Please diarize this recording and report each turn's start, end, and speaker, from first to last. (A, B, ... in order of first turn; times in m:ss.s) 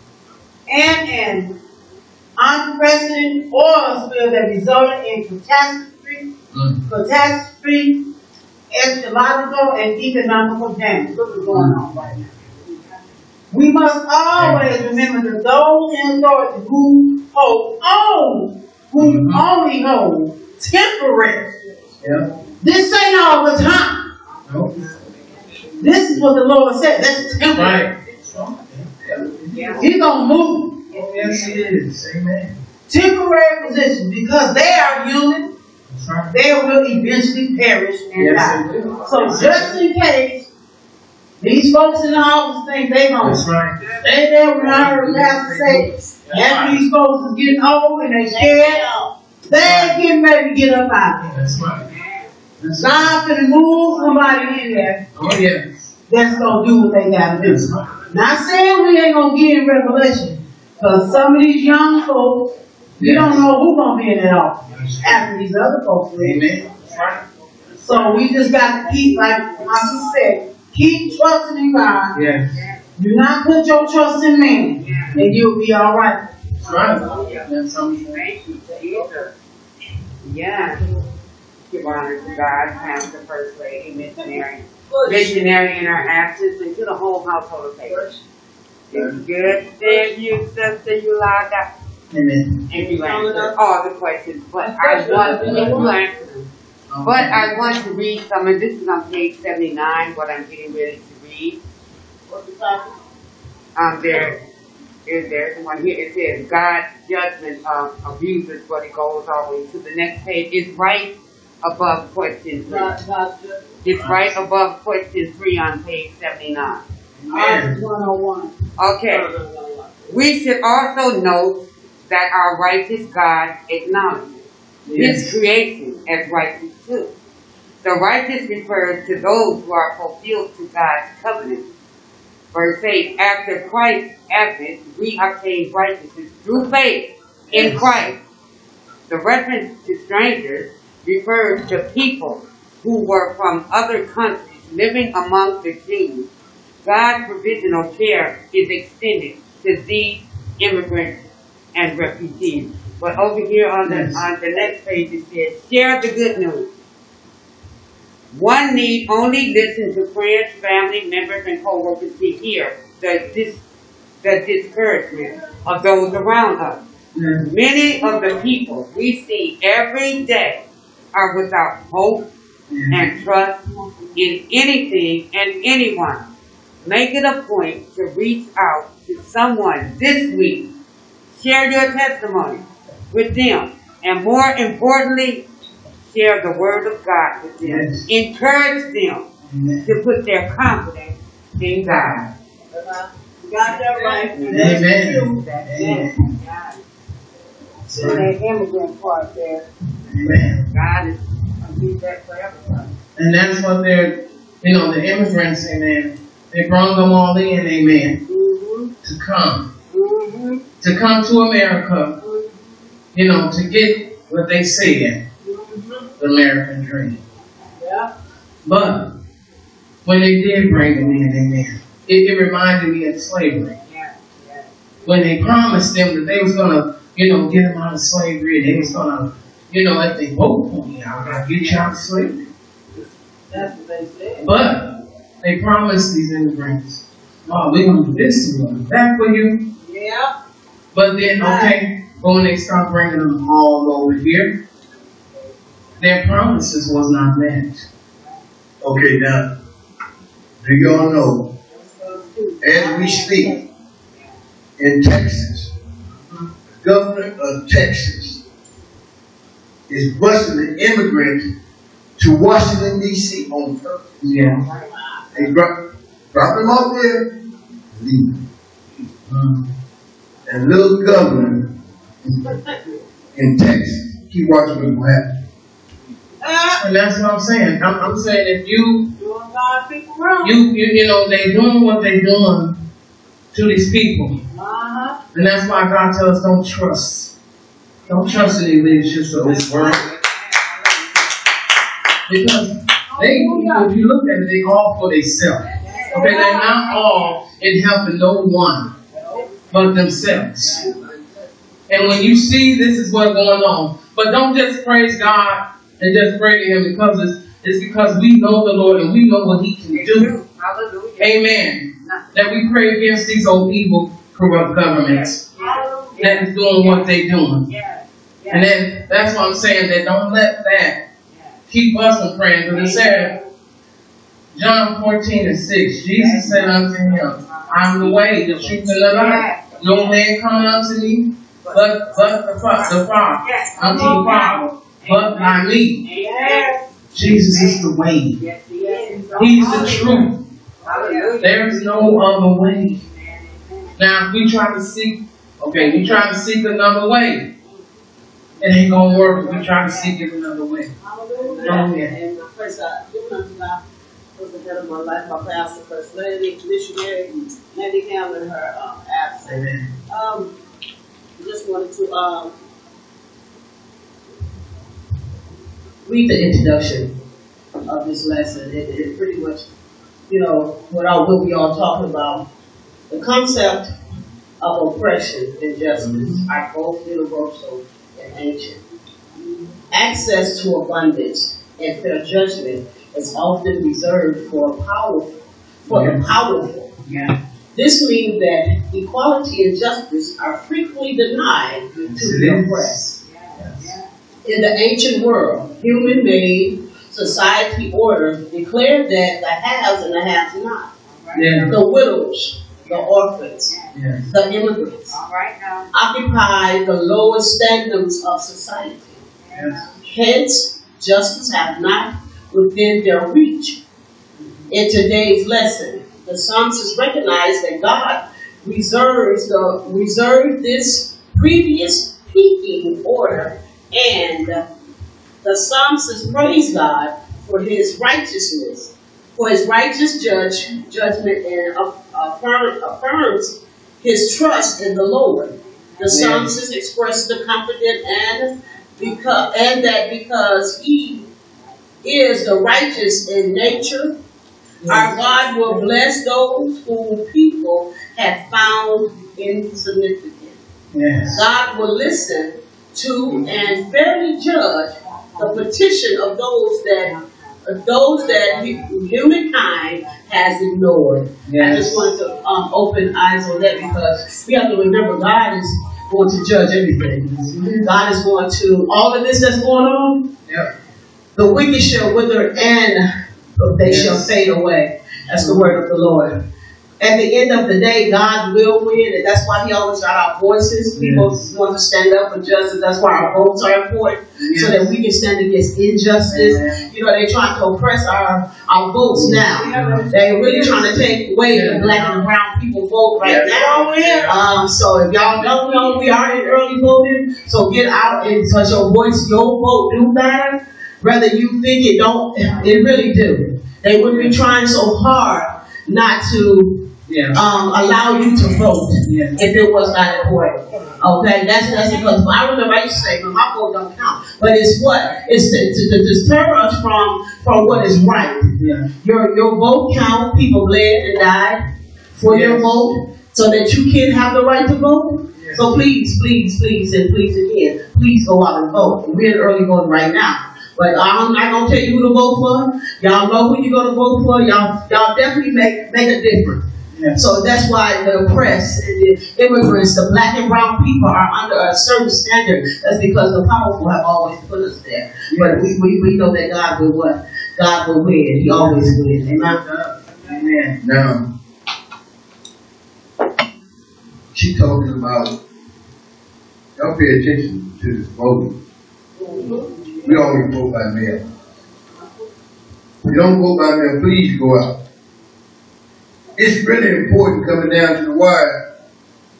0:00.6-0:01.6 A
0:02.4-0:06.3 A
0:06.5-0:06.8 B
0:06.8-0:08.1 A
0:08.7-0:12.2 A
0:11.5-0:11.8 B
0:13.5-0:21.5 A
0:14.4-0:14.8 B
0:19.0-0:19.4 B
0:22.0-0:22.3 B
0:22.6-0:24.0 A
0:24.4-0:25.7 C
0:24.5-0:24.9 B
0:25.8-0:27.8 A
0:27.5-0:29.8 B
0:29.5-0:30.1 C
0:29.8-0:30.8 A
0:30.9-0:31.7 C
0:30.9-0:32.6 B
0:32.9-0:35.5 A
0:35.9-0:36.3 B
0:36.3-0:40.5 A
0:38.1-0:39.7 B
0:38.3-0:39.6 C
0:41.4-0:43.4 A
0:43.2-0:44.0 B
0:44.0-0:48.9 A
0:44.5-0:46.8 B
0:48.2-0:49.1 D
0:49.4-0:51.5 A
0:49.6-0:50.0 B
0:51.3-0:51.8 B
0:51.5-0:52.3 C
0:52.6-0:53.1 B
0:52.8-0:55.0 A
0:55.1-0:55.9 B
0:56.1-1:06.4 A
0:57.3-0:57.8 B
1:03.0-1:03.4 B
1:04.7-1:05.3 B
1:06.2-1:07.2 B
1:07.8-1:12.2 A
1:12.1-1:12.6 B
1:13.0-1:16.2 A
1:14.7-1:15.2 C
1:16.6-1:18.2 B
1:16.7-1:19.3 C
1:16.7-1:17.4 D
1:20.2-1:20.9 C
1:21.7-1:28.0 C
1:24.9-1:25.6 D
1:28.9-1:31.7 C
1:32.1-1:32.6 B
1:32.7-1:36.5 C
1:32.7-1:33.5 D
1:34.8-1:35.9 D
1:35.0-1:35.9 B
1:36.9-1:37.8 B
1:37.0-1:41.6 C
1:42.3-1:43.0 D
1:43.8-1:44.4 C
1:45.0-1:53.0 C
1:52.7-1:53.0 D
1:53.0-1:53.5 A
1:53.8-1:56.8 C
1:53.9-1:54.2 B
1:57.3-1:57.8 B
1:57.3-1:58.5 A
1:58.8-1:59.3 C
2:00.1-2:04.3 C
2:04.9-2:05.3 B
2:04.9-2:07.1 C
2:07.8-2:11.6 C
2:12.5-2:18.2 C
2:17.5-2:18.0 B
2:19.1-2:26.3 C
2:26.8-2:31.2 C
2:31.7-2:36.7 C
2:33.8-2:34.2 B
2:38.3-2:43.6 C
2:44.2-2:46.8 C
2:47.1-2:47.5 B
2:47.4-2:52.3 C
2:52.7-2:53.0 B
2:52.9-2:53.6 C
2:54.1-2:56.3 C
2:56.8-3:00.7 C
3:01.3-3:05.4 C
3:06.1-3:09.3 C
3:07.6-3:08.0 B
3:09.5-3:09.9 B
3:09.8-3:12.3 C
3:13.4-3:15.0 A
3:13.7-3:16.8 C
3:13.9-3:14.5 D
3:14.5-3:16.2 B
3:17.9-3:18.3 B
3:17.9-3:19.6 C
3:20.1-3:20.7 B
3:20.7-3:22.9 C
3:23.2-3:28.2 B
3:29.0-3:29.7 B
3:30.8-3:32.2 B
3:33.1-3:35.2 B
3:36.2-3:37.2 B
3:37.8-3:38.0 A
3:38.6-3:39.2 B
3:40.0-3:43.8 B
3:43.8-3:44.7 C
3:45.0-3:52.4 B
3:51.2-3:51.8 C
3:53.5-3:54.5 A
3:54.4-3:59.7 B
3:59.8-4:00.3 D
4:00.9-4:04.6 B
4:01.4-4:01.7 D
4:06.0-4:07.8 B
4:08.8-4:09.5 E
4:10.6-4:11.5 E
4:11.9-4:13.4 A
4:12.6-4:13.6 E
4:12.7-4:13.5 D
4:14.8-4:15.7 E
4:16.8-4:18.4 E
4:19.9-4:21.5 E
4:22.2-4:24.4 E
4:24.2-4:24.6 B
4:25.3-4:25.8 E
4:26.3-4:27.4 E
4:27.9-4:28.4 E
4:29.3-4:29.6 B
4:30.4-4:32.5 E
4:33.3-4:35.4 E
4:36.4-4:36.7 D
4:36.8-4:39.1 B
4:39.2-4:40.6 A
4:40.4-4:42.8 B
4:43.5-4:44.4 B
4:44.5-4:45.2 A
4:45.3-4:47.3 B
4:48.1-4:50.0 B
4:49.4-4:50.7 C
4:49.5-4:50.1 D
4:52.3-4:58.9 B
4:53.1-4:53.9 A
4:55.8-4:56.8 D
4:55.9-4:57.0 A
4:59.7-5:00.8 B
5:01.9-5:10.3 B
5:09.9-5:12.3 C
5:11.2-5:15.4 B
5:14.9-5:18.7 C
5:15.6-5:16.2 D
5:15.6-5:15.9 A
5:16.2-5:17.7 B
5:18.5-5:21.0 B
5:21.3-5:21.6 C
5:21.7-5:23.3 B
5:22.7-5:23.2 C
5:24.5-5:36.0 B
5:26.1-5:30.2 C
5:31.6-5:40.3 C
5:36.2-5:36.8 A
5:37.1-5:38.4 B
5:38.8-5:40.2 D
5:38.9-5:39.4 A
5:39.4-5:40.4 B
5:40.8-5:42.4 C
5:40.9-5:41.3 A
5:40.9-5:41.4 D
5:41.4-5:43.0 B
5:43.0-5:43.9 C
5:44.0-5:47.5 B
5:48.6-5:50.9 B
5:49.4-5:49.9 D
5:51.0-5:53.8 D
5:51.2-5:51.9 A
5:51.6-5:52.1 B
5:54.3-6:00.6 D
5:59.4-5:59.9 B
6:01.4-6:02.6 D
6:06.0-6:07.1 D
6:07.8-6:09.7 D
6:10.3-6:12.5 D
6:13.1-6:13.9 D
6:14.6-6:18.8 D
6:16.0-6:16.4 B
6:19.9-6:27.0 D
6:25.9-6:26.3 B
6:27.1-6:27.3 B
6:27.7-6:33.0 D
6:32.1-6:33.9 B
6:33.2-6:34.1 C
6:34.4-6:40.9 D
6:41.1-6:41.7 C
6:41.3-6:41.8 B
6:41.6-6:45.2 D
6:42.8-6:45.9 C
6:43.9-6:44.3 B
6:45.9-6:49.2 D
6:49.2-6:50.0 C
6:49.5-6:49.8 B
6:50.0-6:53.8 D
6:54.7-7:04.6 D
7:05.4-7:21.3 D
7:16.1-7:16.5 B
7:22.0-7:24.2 D
7:24.8-7:25.8 B
7:24.8-7:30.6 D
7:30.9-7:31.4 B
7:31.3-7:50.3 D
7:38.1-7:38.9 C
7:41.4-7:42.1 B
7:47.2-7:47.9 B
7:51.4-7:56.4 D
7:53.8-7:54.3 B
7:55.3-7:55.8 B
7:57.0-9:09.6 D
8:00.9-8:01.5 B
8:04.4-8:04.9 B
8:06.3-8:06.9 B
8:09.1-8:12.2 B
8:13.2-8:14.5 B
8:13.5-8:14.3 A
8:15.2-8:16.6 B
8:24.0-8:24.4 B
8:27.1-8:27.4 B
8:29.0-8:29.4 B
8:38.6-8:38.9 B
8:42.2-8:42.6 B
8:45.3-8:45.8 B
8:56.9-8:57.2 B
9:05.3-9:05.6 B
9:08.5-9:10.8 B
9:10.8-9:11.3 E
9:14.3-9:15.4 E
9:16.8-9:18.6 E
9:19.2-9:20.1 D
9:19.2-9:20.1 A
9:20.0-9:21.3 E
9:23.0-9:24.8 E
9:26.3-9:28.6 E